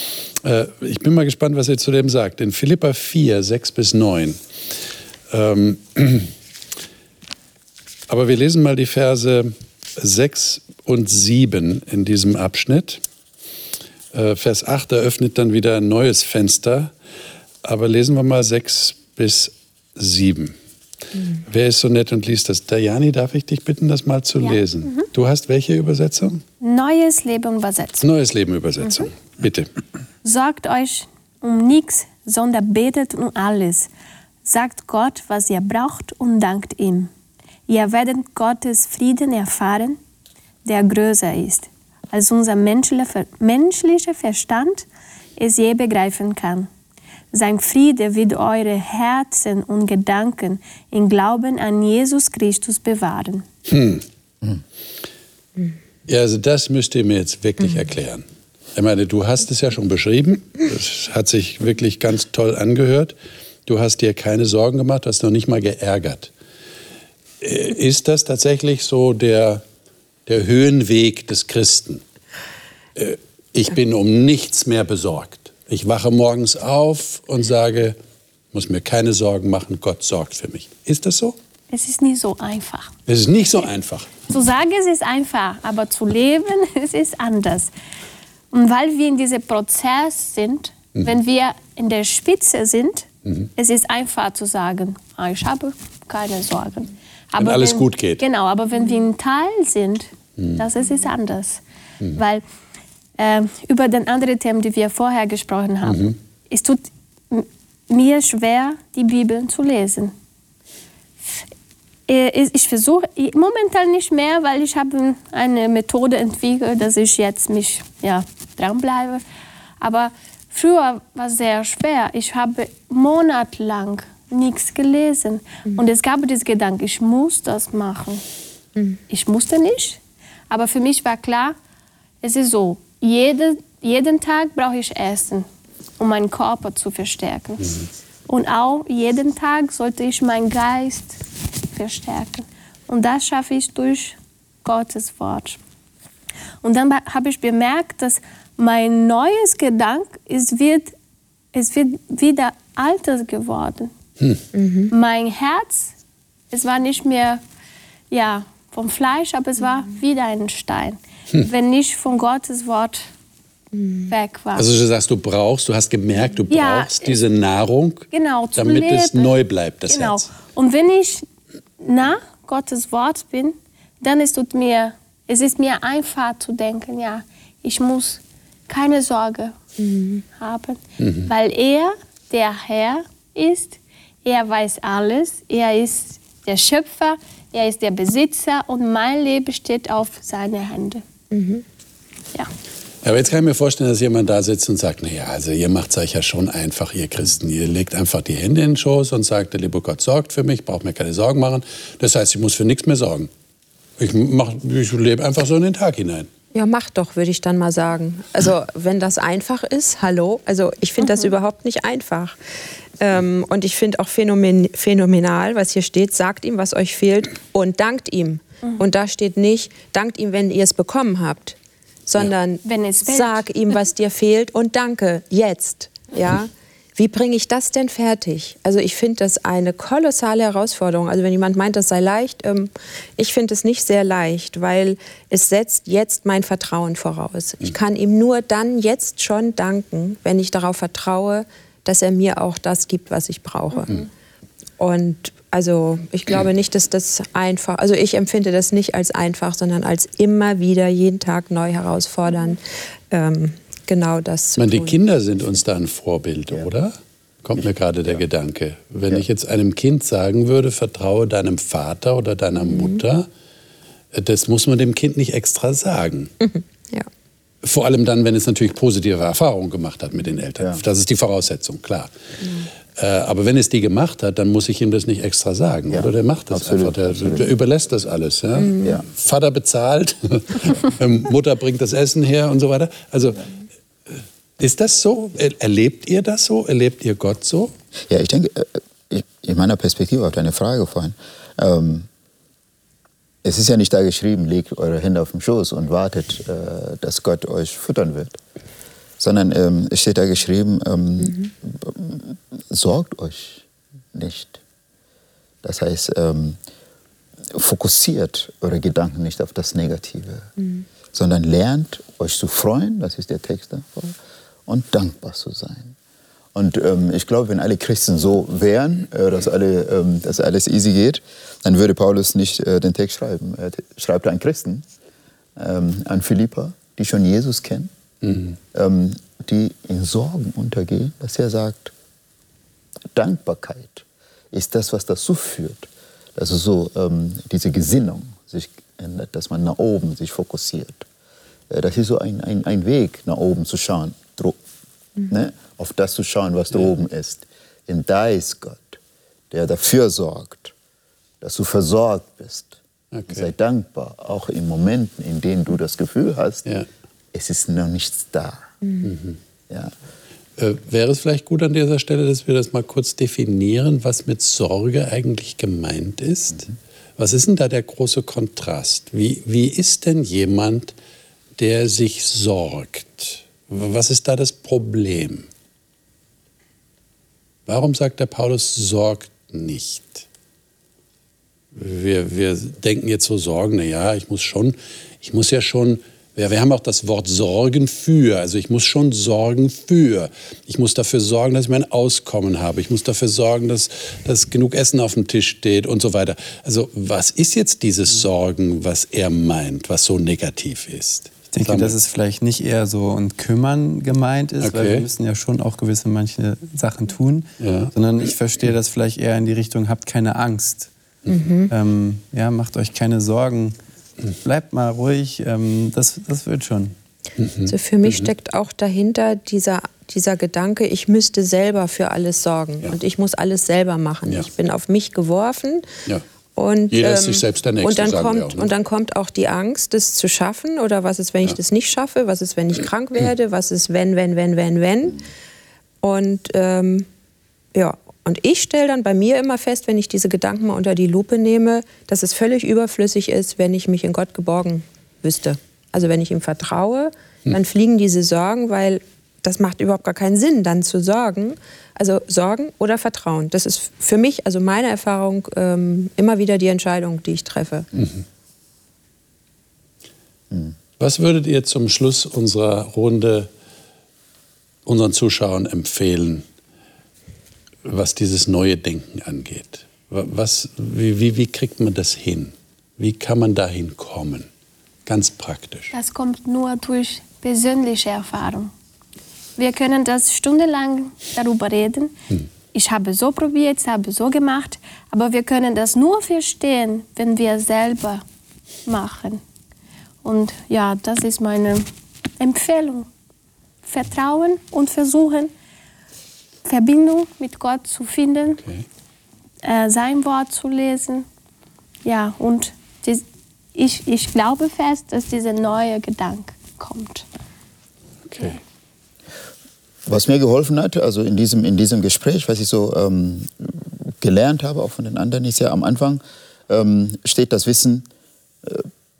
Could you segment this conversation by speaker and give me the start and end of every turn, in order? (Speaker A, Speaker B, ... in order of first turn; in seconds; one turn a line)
Speaker A: 0.4-4.4
Speaker A: 5.3-6.3
Speaker A: 8.1-13.0
Speaker A: 14.1-16.9
Speaker A: 17.6-20.5
Speaker A: 21.4-26.4
Speaker B: 24.4-25.1
Speaker B: 26.6-28.1
Speaker A: 28.0-29.7
Speaker B: 30.2-33.9
Speaker B: 34.4-37.1
Speaker B: 37.7-40.0
Speaker B: 40.6-44.9
Speaker B: 45.4-46.7
Speaker B: 47.3-53.4
Speaker A: 53.7-54.0
Speaker A: 56.1-63.1
Speaker A: 63.6-66.3
Speaker A: 67.4-69.6
Speaker A: 70.2-72.0
Speaker A: 73.0-78.0
Speaker A: 78.5-81.3
Speaker B: 81.7-82.9
Speaker A: 83.1-84.3
Speaker B: 84.3-87.7
Speaker B: 88.5-101.6
Speaker A: 97.4-98.2
Speaker A: 100.4-100.6
Speaker B: 102.1-102.4
Speaker B: 103.2-110.1
Speaker A: 105.8-106.1
Speaker B: 112.1-119.2
Speaker B: 119.8-128.2
Speaker B: 129.1-131.6
Speaker B: 132.2-135.4
Speaker B: 136.0-141.2
Speaker B: 141.7-145.6
Speaker B: 146.6-150.9
Speaker B: 151.5-153.9
Speaker C: 154.5-154.9
Speaker B: 154.9-155.9
Speaker B: 156.5-157.4
Speaker B: 158.1-163.1
Speaker C: 163.7-164.1
Speaker B: 164.1-164.7
Speaker A: 164.5-170.3
Speaker B: 166.5-167.2
Speaker B: 168.1-169.3
Speaker B: 169.9-171.2
Speaker B: 171.8-179.5
Speaker C: 179.8-180.2
Speaker B: 180.3-191.0
Speaker A: 181.0-181.3
Speaker C: 191.3-191.6
Speaker A: 193.0-203.3
Speaker A: 204.0-206.3
Speaker C: 206.5-212.3
Speaker C: 213.0-243.9
Speaker B: 222.6-223.4
Speaker C: 244.8-255.0
Speaker A: 254.6-263.3
Speaker C: 262.6-263.0
Speaker A: 264.1-266.3
Speaker C: 266.4-267.1
Speaker A: 267.6-272.1
Speaker C: 272.4-272.7
Speaker A: 272.9-283.4
Speaker D: 275.9-277.5
Speaker A: 284.6-287.7
Speaker D: 288.1-292.1
Speaker D: 293.4-298.4
Speaker D: 299.2-304.6
Speaker D: 305.6-306.6
Speaker D: 307.5-310.5
Speaker D: 311.1-314.1
Speaker D: 314.7-315.9
Speaker D: 316.5-324.8
Speaker D: 325.6-327.9
Speaker A: 328.2-328.5
Speaker D: 328.7-331.9
Speaker D: 333.1-341.1
Speaker D: 341.7-344.6
Speaker D: 345.3-349.0
Speaker D: 349.5-350.7
Speaker D: 351.4-352.8
Speaker A: 353.1-353.5
Speaker D: 353.3-356.6
Speaker D: 357.3-358.6
Speaker A: 359.0-359.4
Speaker A: 360.6-370.9
Speaker A: 371.6-375.5
Speaker A: 377.7-380.2
Speaker A: 381.7-402.0
Speaker E: 401.5-410.9
Speaker A: 404.6-405.0
Speaker A: 407.6-407.9
Speaker C: 411.3-411.7
Speaker E: 411.7-413.8
Speaker E: 414.4-416.9
Speaker A: 417.4-418.3
Speaker C: 417.7-425.9
Speaker C: 426.6-435.2
Speaker A: 426.9-428.7
Speaker C: 436.0-437.1
Speaker C: 437.7-457.9
Speaker A: 461.0-463.5
Speaker A: 464.9-466.4
Speaker A: 467.8-474.5
Speaker A: 475.1-475.9
Speaker B: 475.9-478.7
Speaker B: 479.6-482.1
Speaker B: 482.7-488.2
Speaker B: 488.9-489.4
Speaker B: 490.2-491.9
Speaker B: 492.4-493.1
Speaker B: 493.8-495.5
Speaker B: 496.6-498.6
Speaker A: 498.6-498.8
Speaker B: 499.6-501.2
Speaker B: 502.0-503.2
Speaker B: 503.7-507.2
Speaker A: 508.3-508.6
Speaker D: 510.1-518.1